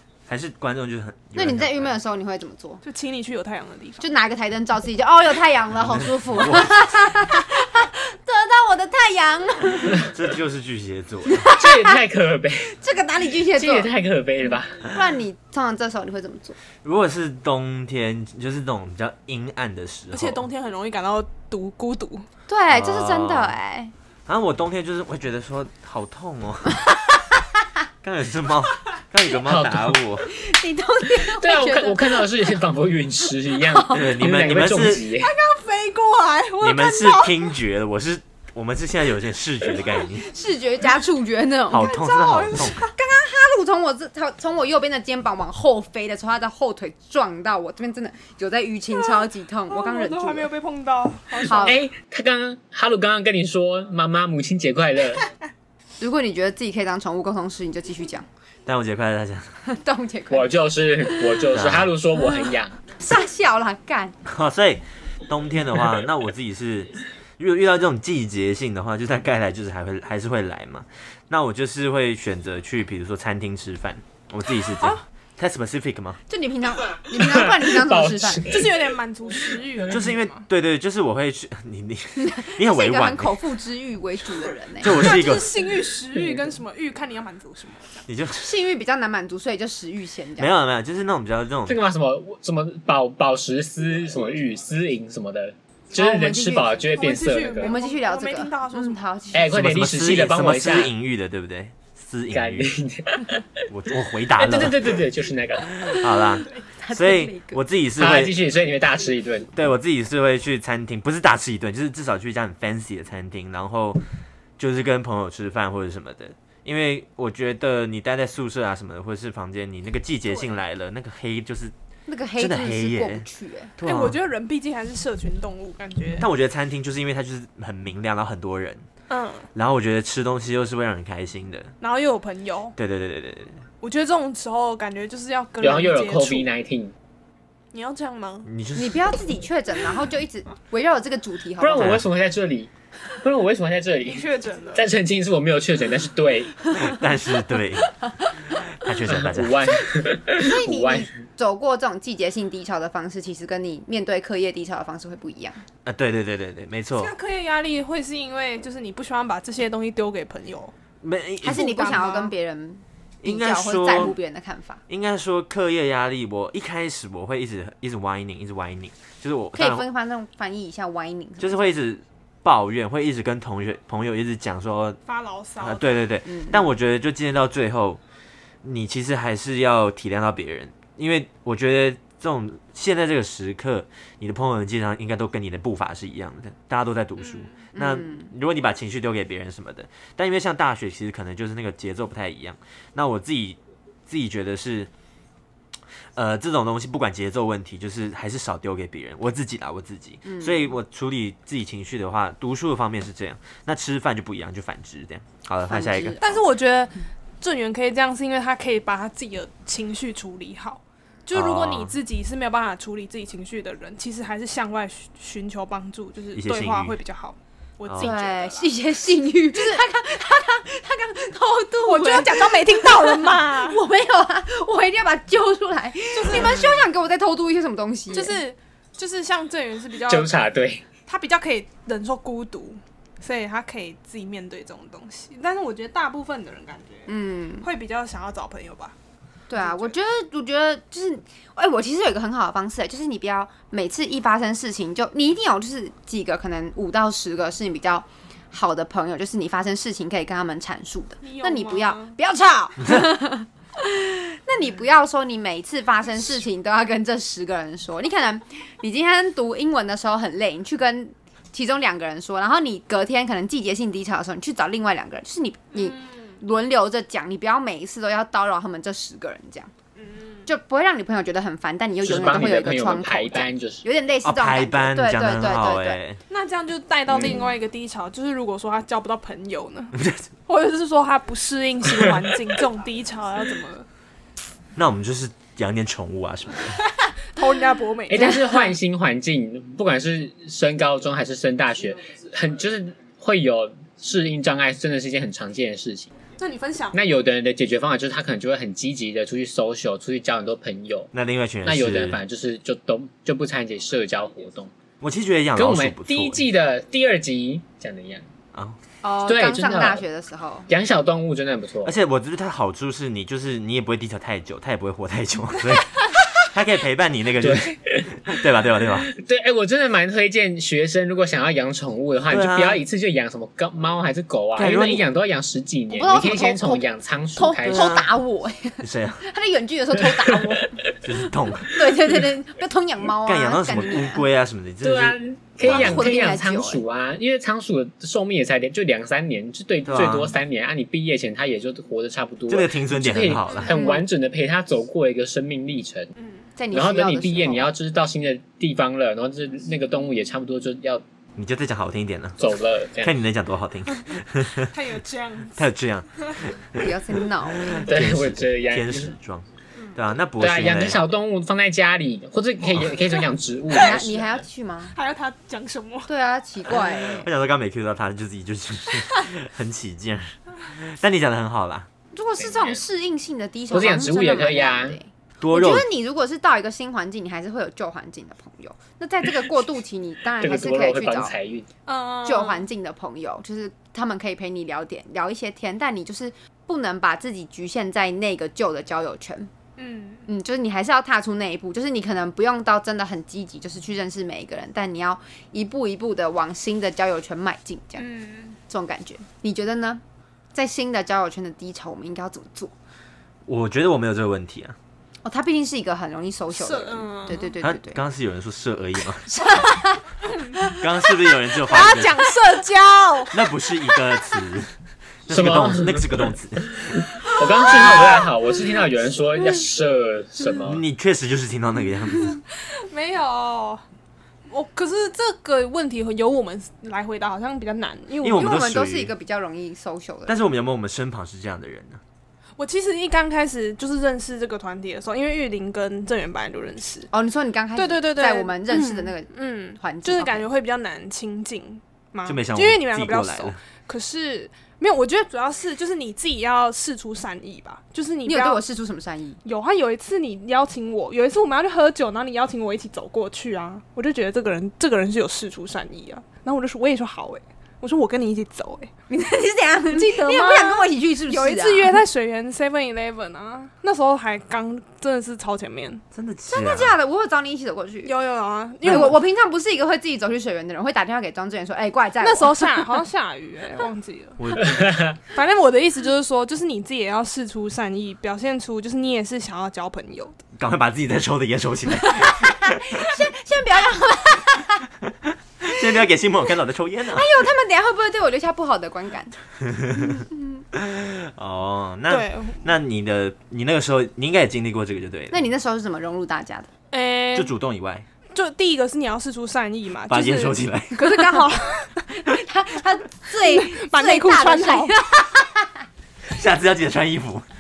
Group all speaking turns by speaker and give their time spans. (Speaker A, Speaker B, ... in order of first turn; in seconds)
Speaker A: 0.3-1.9, 6.2-7.1, 10.0-11.5, 16.8-20.4, 22.7-23.5, 24.3-26.8, 28.0-30.3, 33.9-35.1, 36.6-40.3, 41.7-42.8, 58.6-59.5, 61.5-61.9, 64.2-76.2, 79.9-83.4, 84.8-85.5, 88.1-88.5, 90.4-91.8, 99.5-102.7, 103.7-105.0, 105.8-108.4, 109.5-114.0, 114.6-121.7, 122.4-123.2, 123.8-124.2, 126.2-128.8, 129.5-131.7, 132.8-133.6, 138.4-139.0, 141.8-142.1, 146.7-147.9, 148.5-149.8, 155.8-157.1, 161.0-162.0, 163.2-164.2, 164.9-169.8, 171.4-175.0, 175.6-178.0, 178.6-194.9, 196.1-206.2, 211.3-211.9, 216.3-217.0, 217.8-218.1, 274.2-276.2, 279.9-280.2, 284.8-286.8, 301.1-302.2, 305.0-306.4, 311.8-319.1, 322.3-322.8, 324.6-325.0, 327.7-328.1, 328.8-329.2, 331.0-332.1, 333.2-336.1, 339.9-340.4, 342.5-343.7, 351.4-354.8, 355.6-361.1, 366.7-371.9, 375.4-375.9, 403.4-404.8, 407.6-409.4, 410.8-412.2, 413.3-414.7, 415.3-417.0, 420.6-422.4, 428.2-429.1, 430.3-432.0, 442.2-443.6, 466.1-466.9, 474.4-474.9, 480.6-483.2, 485.0-487.3, 489.6-495.4, 497.3-498.1, 500.1-501.0, 506.3-507.4
Speaker B: 1.3-2.8, 4.0-10.1, 11.3-12.0, 12.7-13.9, 14.9-16.6, 22.5-23.9, 30.2-32.3, 33.6-34.1, 40.3-50.5, 51.4-51.8, 56.0-58.2, 59.7-60.5, 63.0-64.2, 76.3-78.5, 82.2-85.1, 88.4-90.5, 95.9-96.8, 97.6-99.5, 105.9-107.6, 122.1-123.7, 138.7-142.0, 150.3-155.6, 161.4-164.8, 169.5-171.7, 176.3-176.6, 187.7-188.3, 200.2-200.7, 205.7-206.4, 218.0-228.4, 237.1-237.7, 239.5-269.7, 270.4-276.0, 288.1-288.6, 309.0-310.7, 325.9-326.8, 327.4-330.8, 331.6-334.3, 335.6-336.8, 343.7-344.0, 346.6-347.7, 356.7-357.8, 363.7-364.9, 366.1-367.3, 372.1-381.3, 382.2-389.5, 390.3-398.0, 398.7-400.0, 400.5-402.7, 405.2-408.0, 409.3-411.1, 417.4-418.1, 428.2-430.4, 437.1-440.5, 448.2-449.4, 459.1-461.9, 466.5-468.1, 468.8-472.9, 482.0-484.9, 487.1-489.4, 489.9-490.6, 495.3-496.7, 501.0-505.7
Speaker C: 2.8-4.0, 20.1-22.2, 35.1-37.6, 41.7-42.9, 48.9-51.8, 78.5-80.5, 84.8-88.0, 96.9-99.0, 123.8-126.3, 129.1-129.5, 131.8-132.8, 133.8-136.5, 137.7-138.5, 144.0-144.9, 156.9-160.7, 161.4-162.3, 175.1-175.9, 187.2-187.6, 206.2-218.8, 221.8-223.8, 226.1-226.8, 228.1-230.3, 231.1-237.1, 237.6-238.9, 239.6-239.9, 251.2-252.2, 265.8-266.3, 270.0-270.5, 276.3-283.9, 287.0-288.6, 296.4-296.9, 346.2-346.4, 354.6-355.6, 364.9-366.1, 381.9-382.7, 389.8-390.2, 398.0-398.6, 406.5-407.5, 411.6-413.4, 417.7-418.0, 422.5-423.8, 424.5-428.6, 432.6-437.1, 437.8-448.6, 449.4-458.9, 459.9-466.0, 468.0-469.2, 472.2-474.4, 475.3-480.4, 492.1-492.7, 496.9-497.5, 498.3-502.0, 503.4-504.9
Speaker D: 11.6-12.7, 13.5-14.9, 29.4-30.0, 31.2-35.3, 51.5-55.3, 60.3-62.8, 77.1-78.7, 91.7-97.8, 99.3-100.9, 102.3-103.4, 104.3-105.8, 108.0-109.5, 135.6-136.9, 141.6-146.6, 149.0-151.1, 230.1-230.8, 272.0-273.8, 277.1-277.4, 288.1-296.1, 296.9-301.1, 301.6-304.7, 305.6-308.2, 309.2-310.0, 310.7-311.9, 317.4-318.3, 319.0-328.0, 330.1-330.6, 334.8-346.1, 346.7-351.0, 352.4-353.1, 357.8-359.1, 360.4-364.4, 372.4-372.8, 373.7-375.0, 380.4-381.7, 415.3-416.3, 416.9-420.8, 474.6-475.1